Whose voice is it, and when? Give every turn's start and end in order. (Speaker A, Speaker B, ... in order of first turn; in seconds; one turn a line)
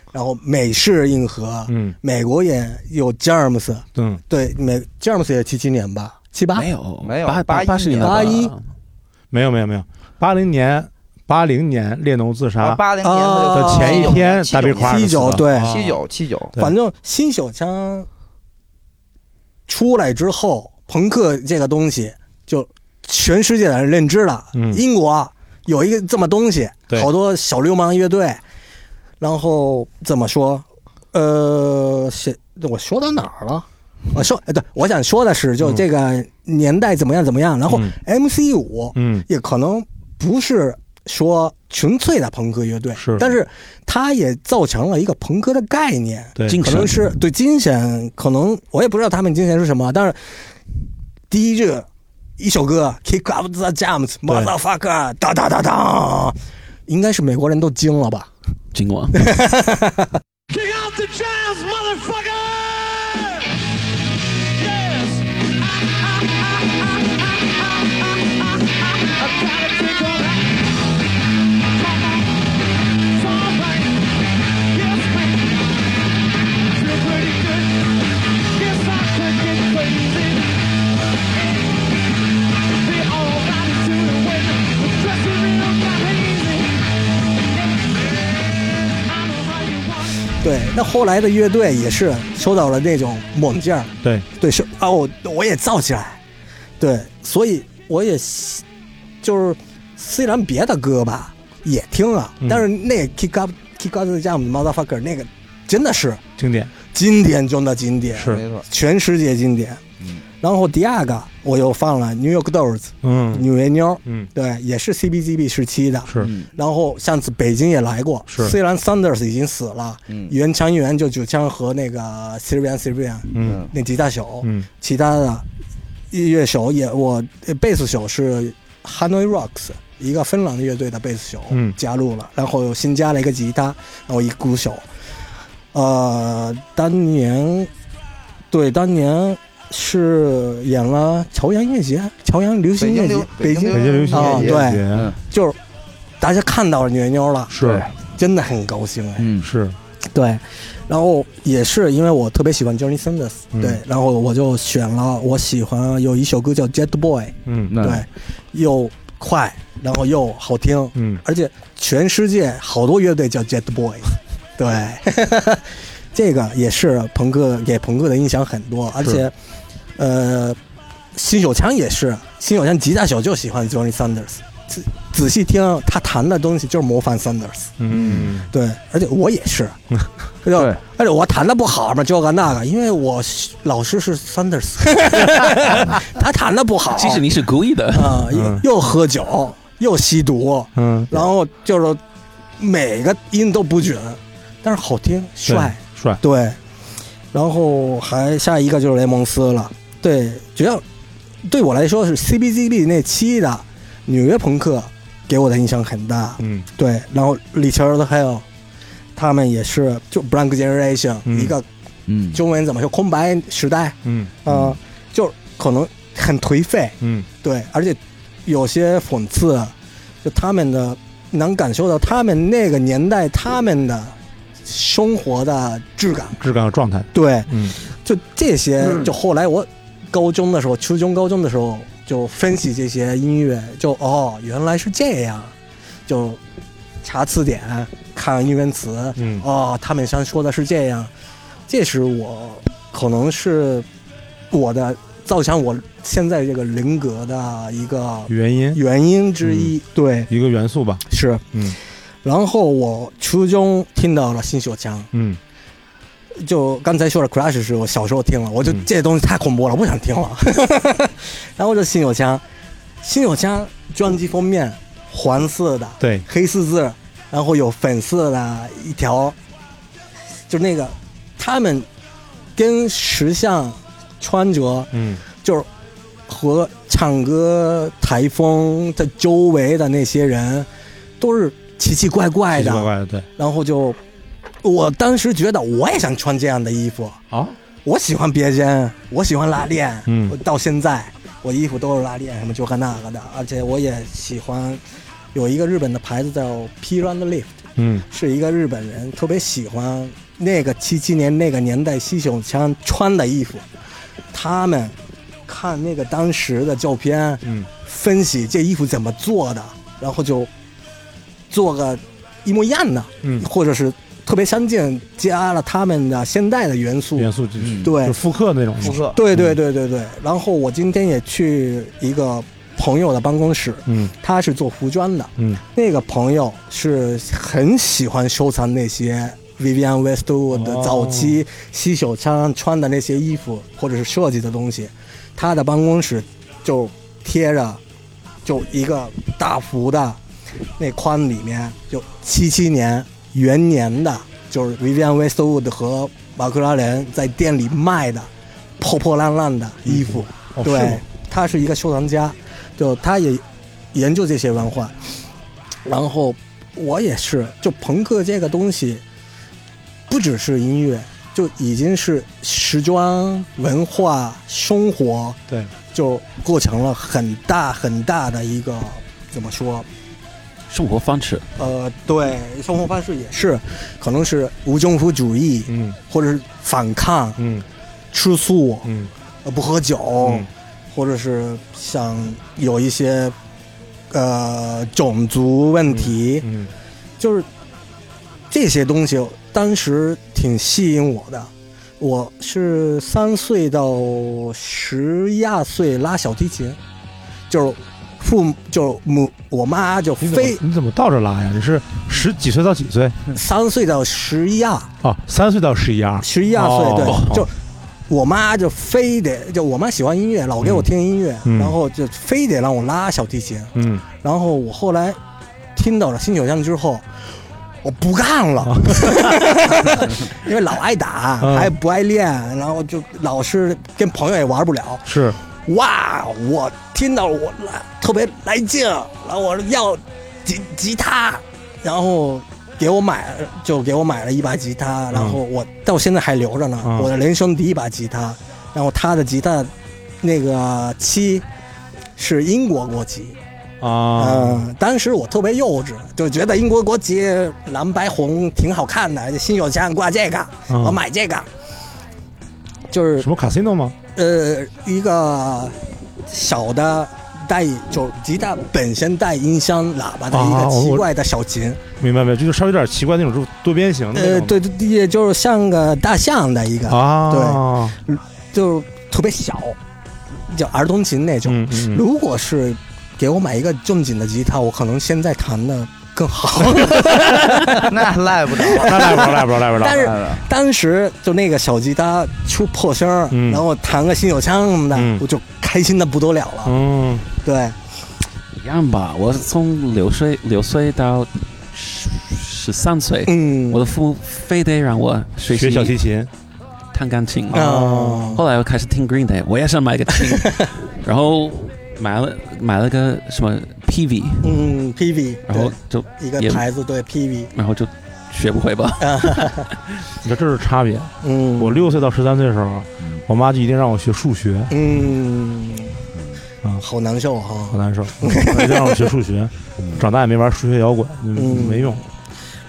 Speaker A: 0.1-6.7
Speaker B: 1.7-1.9
Speaker B: 4.0-4.2
Speaker C: 6.5-8.6
Speaker D: 7.0-8.4
Speaker A: 8.0-8.5
Speaker B: 9.3-12.8
Speaker D: 12.6-15.1
Speaker A: 13.0-15.8
Speaker B: 13.5-16.0
Speaker D: 15.6-16.6
Speaker A: 16.6-18.1
Speaker A: 19.7-28.4
Speaker B: 24.5-24.8
Speaker A: 29.2-50.4
Speaker B: 37.7-37.9
Speaker B: 39.0-39.2
Speaker B: 43.0-43.3
Speaker B: 46.4-46.7
Speaker C: 46.5-47.0
Speaker A: 51.3-51.9
Speaker A: 52.4-56.3
Speaker B: 54.2-54.5
Speaker A: 56.9-58.3
Speaker C: 58.7-59.2
Speaker A: 59.1-60.1
Speaker E: 60.5-63.5
Speaker E: 64.4-70.9
Speaker E: 71.7-80.6
Speaker E: 81.3-82.2
Speaker E: 82.7-86.9
Speaker E: 87.4-88.3
Speaker E: 88.9-90.2
Speaker A: 90.4-96.2
Speaker A: 96.8-98.6
Speaker A: 99.2-106.2
Speaker B: 106.4-106.7
Speaker A: 106.9-109.8
Speaker B: 108.1-108.4
Speaker D: 108.2-108.7
Speaker A: 110.4-125.4
Speaker B: 113.0-113.5
Speaker B: 116.1-116.3
Speaker D: 116.2-116.5
Speaker B: 118.3-118.5
Speaker B: 123.3-123.6
Speaker D: 123.4-123.7
Speaker A: 126.1-134.8
Speaker B: 131.5-131.8
Speaker A: 135.7-137.7
Speaker A: 138.5-145.6
Speaker D: 142.8-145.2
Speaker B: 143.7-145.1
Speaker A: 146.2-149.3
Speaker B: 147.5-147.8
Speaker D: 147.6-147.9
Speaker D: 149.2-149.5
Speaker B: 149.4-149.8
Speaker A: 150.1-169.3
Speaker B: 153.5-153.8
Speaker B: 157.4-157.8
Speaker D: 157.7-158.1
Speaker B: 160.9-161.2
Speaker A: 170.0-170.6
Speaker A: 171.1-177.7
Speaker B: 177.8-178.5
Speaker D: 177.9-178.3
Speaker A: 178.5-179.8
Speaker A: 180.4-187.2
Speaker C: 186.9-188.2
Speaker A: 187.9-192.0
Speaker B: 188.3-188.6
Speaker B: 190.7-191.2
Speaker A: 192.6-196.6
Speaker B: 195.5-196.2
Speaker A: 197.3-200.8
Speaker A: 201.4-208.4
Speaker B: 206.4-206.7
Speaker A: 209.2-211.7
Speaker B: 211.2-211.5
Speaker D: 212.1-212.4
Speaker A: 212.3-226.4
Speaker B: 214.0-214.3
Speaker B: 217.0-217.2
Speaker B: 226.4-227.8
Speaker A: 227.1-235.5
Speaker A: 236.1-236.4
Speaker A: 237.0-241.1
Speaker B: 239.2-239.4
Speaker A: 241.7-243.9
Speaker A: 244.5-250.3
Speaker B: 248.3-248.8
Speaker B: 249.4-249.7
Speaker B: 250.3-251.8
Speaker A: 251.1-251.4
Speaker A: 252.2-255.1
Speaker B: 255.1-255.4
Speaker A: 256.4-262.4
Speaker A: 263.0-269.4
Speaker B: 266.0-266.2
Speaker A: 270.5-271.9
Speaker A: 272.6-275.7
Speaker B: 274.9-275.2
Speaker A: 276.3-280.7
Speaker A: 281.2-284.0
Speaker B: 282.5-283.2
Speaker A: 284.6-287.2
Speaker A: 287.8-294.8
Speaker B: 290.1-290.4
Speaker A: 295.3-297.5
Speaker B: 297.8-298.0
Speaker A: 298.0-303.6
Speaker A: 304.3-304.9
Speaker A: 305.5-310.5
Speaker A: 311.5-317.3
Speaker B: 317.1-319.6
Speaker D: 317.6-317.9
Speaker A: 317.8-318.2
Speaker D: 318.8-319.2
Speaker A: 318.8-337.8
Speaker B: 323.9-324.1
Speaker B: 330.5-331.4
Speaker A: 338.4-340.2
Speaker A: 340.8-354.9
Speaker B: 349.9-351.0
Speaker A: 355.8-359.0
Speaker A: 360.1-365.4
Speaker A: 365.9-369.9
Speaker C: 370.7-371.4
Speaker A: 371.6-377.4
Speaker B: 375.7-376.0
Speaker B: 377.4-377.6
Speaker A: 378.1-378.9
Speaker B: 378.8-379.1
Speaker A: 379.4-383.3
Speaker B: 380.2-380.5
Speaker A: 384.1-386.5
Speaker B: 385.9-386.7
Speaker A: 387.2-387.5
Speaker A: 388.5-396.8
Speaker A: 397.5-400.6
Speaker B: 400.2-403.2
Speaker A: 403.3-404.9
Speaker B: 405.0-407.5
Speaker A: 406.2-407.5
Speaker C: 407.0-407.3
Speaker A: 408.1-415.2
Speaker B: 410.6-410.9
Speaker B: 411.4-411.8
Speaker B: 413.7-414.0
Speaker A: 415.7-417.1
Speaker A: 417.8-441.4
Speaker B: 418.6-420.1
Speaker B: 421.4-421.7
Speaker B: 425.0-425.4
Speaker B: 435.1-435.4
Speaker B: 436.8-437.1
Speaker A: 442.2-443.4
Speaker B: 443.8-444.6
Speaker A: 444.1-451.5
Speaker B: 450.7-451.0
Speaker A: 452.9-453.3
Speaker B: 453.2-453.9
Speaker A: 454.1-461.8
Speaker B: 460.3-461.1
Speaker B: 462.0-464.6
Speaker A: 464.1-469.8
Speaker B: 466.9-468.0
Speaker A: 470.5-477.9
Speaker B: 471.4-472.0
Speaker B: 477.1-477.8
Speaker D: 477.6-480.4
Speaker A: 478.6-486.8
Speaker B: 478.7-480.1
Speaker B: 483.3-483.6
Speaker B: 484.9-485.2
Speaker B: 486.6-487.2
Speaker A: 487.4-487.8
Speaker C: 488.5-495.9
Speaker A: 493.3-493.9
Speaker B: 495.5-496.3
Speaker C: 496.9-504.6
Speaker A: 497.5-498.4
Speaker B: 497.6-498.3
Speaker A: 504.4-507.5
Speaker C: 505.5-506.6
Speaker C: 507.5-509.6
Speaker A: 509.0-509.7
Speaker B: 510.2-514.7
Speaker A: 511.2-511.8
Speaker A: 514.7-516.0
Speaker D: 516.1-516.4
Speaker A: 516.8-519.1
Speaker B: 517.7-522.0
Speaker D: 519.8-520.0
Speaker A: 521.3-522.1